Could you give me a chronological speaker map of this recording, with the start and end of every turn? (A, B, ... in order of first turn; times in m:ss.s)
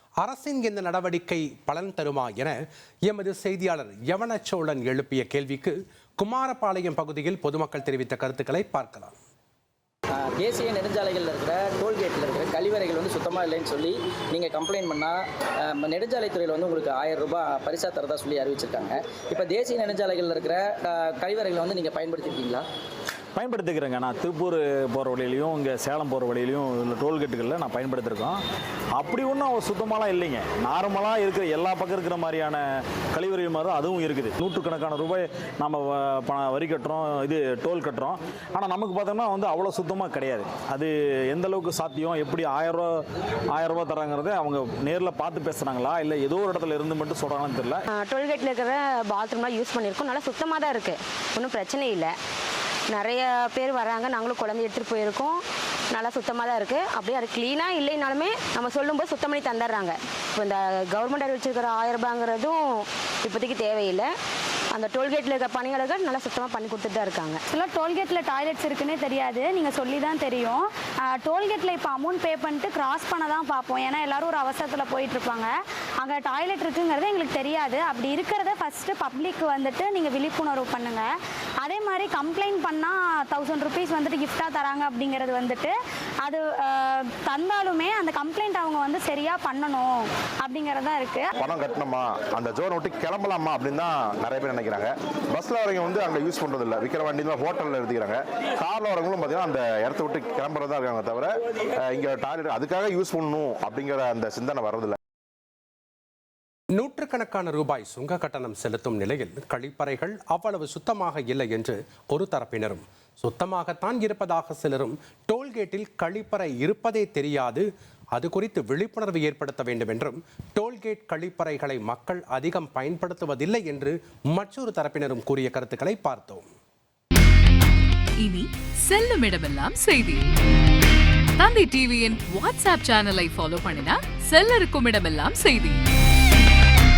0:00.2-0:02.6 A
0:03.1-0:09.2 A
0:10.2-0:22.7 B
0:23.4-0:28.4 C
0:28.9-0:47.8 C
0:47.9-0:52.2 D
0:52.9-1:04.1 D
1:04.7-1:07.4 D
1:07.5-1:21.1 E
1:21.6-1:25.7 E
1:26.2-1:31.3 E
1:31.4-1:45.0 F
1:46.8-2:06.5 A
2:08.2-2:10.3 G
2:11.4-2:15.8 G